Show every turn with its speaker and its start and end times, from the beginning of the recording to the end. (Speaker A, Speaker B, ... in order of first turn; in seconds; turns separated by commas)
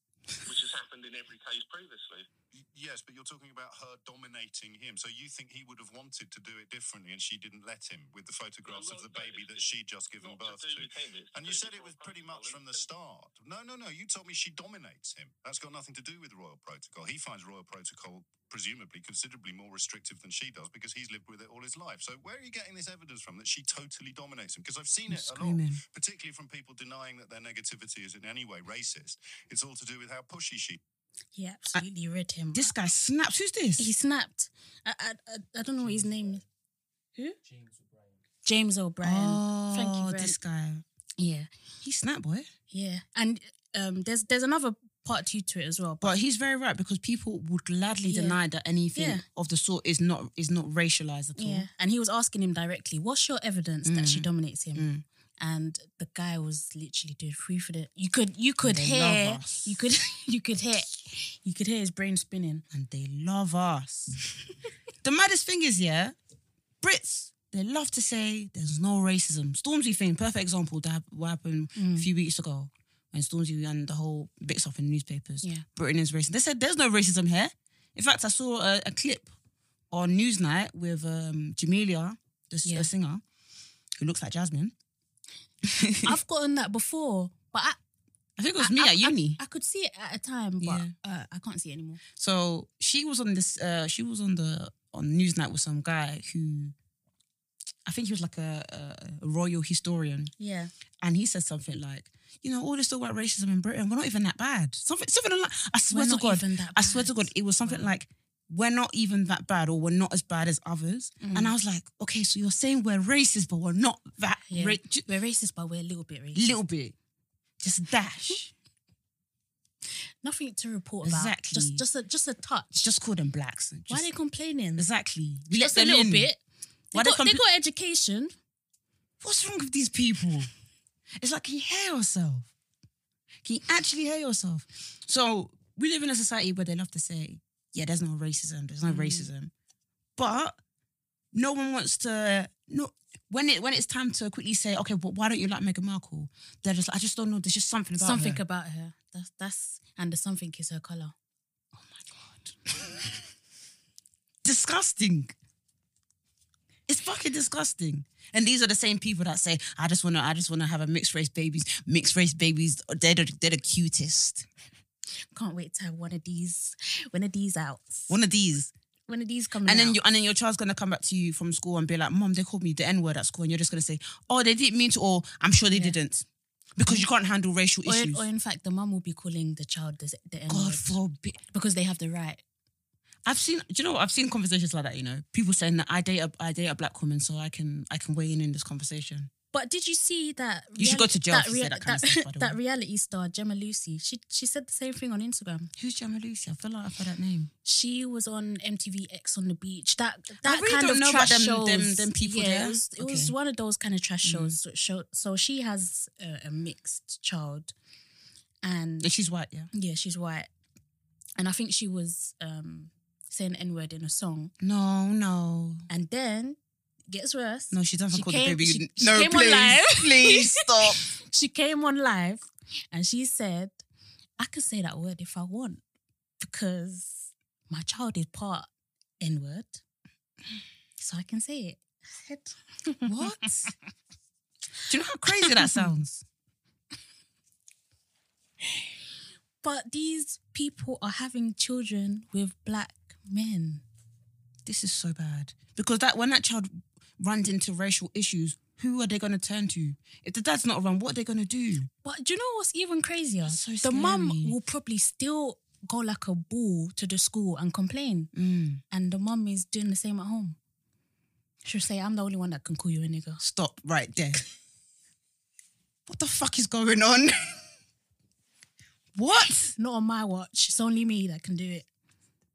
Speaker A: 0.5-2.3, Speaker B: 2.7-30.8, Speaker A: 8.7-12.8, Speaker C: 25.1-25.8, Speaker D: 31.4-32.8, Speaker C: 32.5-33.9, Speaker D: 33.8-36.4, Speaker D: 38.5-40.4, Speaker C: 39.0-40.8, Speaker D: 41.2-41.5, Speaker C: 41.8-42.5, Speaker D: 42.7-46.1, Speaker C: 46.0-51.7, Speaker D: 48.0-48.4, Speaker D: 49.0-49.2, Speaker D: 51.4-54.9, Speaker C: 53.9-55.0, Speaker D: 55.4-62.6, Speaker C: 58.6-59.8, Speaker C: 62.7-64.2, Speaker C: 65.0-66.2, Speaker C: 66.8-79.3, Speaker D: 71.8-72.1, Speaker C: 79.9-83.2, Speaker C: 84.0-84.7, Speaker C: 85.6-86.2, Speaker D: 86.0-87.8, Speaker C: 88.4-89.4, Speaker D: 88.6-92.0, Speaker C: 90.6-90.9, Speaker C: 92.2-96.7, Speaker C: 97.9-100.3, Speaker D: 100.4-100.7, Speaker C: 101.0-115.0, Speaker D: 105.9-107.9, Speaker D: 111.2-111.5, Speaker D: 114.5-116.6, Speaker C: 116.3-117.0, Speaker C: 117.6-118.5, Speaker D: 120.2-122.9, Speaker C: 121.0-121.8, Speaker C: 122.8-124.1, Speaker D: 123.9-124.9, Speaker C: 124.8-126.3, Speaker D: 125.5-126.4, Speaker C: 126.9-127.4, Speaker D: 126.9-128.3, Speaker C: 129.2-130.5, Speaker C: 131.2-132.5, Speaker C: 133.4-139.5, Speaker D: 138.8-139.3, Speaker C: 140.2-140.6, Speaker C: 141.3-148.4, Speaker D: 148.0-151.2, Speaker C: 151.8-153.2, Speaker C: 154.4-155.3, Speaker C: 156.9-164.5, Speaker D: 165.3-168.2, Speaker C: 168.1-168.7, Speaker D: 169.1-170.0, Speaker C: 169.7-176.2, Speaker D: 175.7-176.0, Speaker C: 176.8-178.3, Speaker D: 177.8-181.0, Speaker C: 180.5-181.4, Speaker D: 181.5-182.4, Speaker C: 183.2-189.3, Speaker D: 189.5-195.7, Speaker C: 190.8-192.6, Speaker C: 195.8-197.5, Speaker D: 197.7-207.7, Speaker C: 200.4-203.3, Speaker C: 204.2-204.6, Speaker D: 208.6-209.1, Speaker C: 209.0-209.7, Speaker D: 209.7-210.5, Speaker D: 211.4-214.5, Speaker C: 214.6-215.9, Speaker D: 215.9-216.6, Speaker D: 217.1-223.8, Speaker C: 217.7-221.0, Speaker D: 224.4-225.8, Speaker D: 226.4-228.7, Speaker D: 229.2-229.8, Speaker D: 231.0-233.3, Speaker C: 233.1-233.7, Speaker C: 234.9-236.2, Speaker D: 235.4-235.9, Speaker D: 239.6-243.8, Speaker C: 244.7-251.9, Speaker D: 252.0-258.3, Speaker C: 253.4-254.6, Speaker C: 258.3-258.8, Speaker D: 258.9-260.6, Speaker D: 261.6-263.4, Speaker C: 263.4-264.4, Speaker C: 266.1-267.6, Speaker C: 269.1-269.8, Speaker D: 269.8-271.9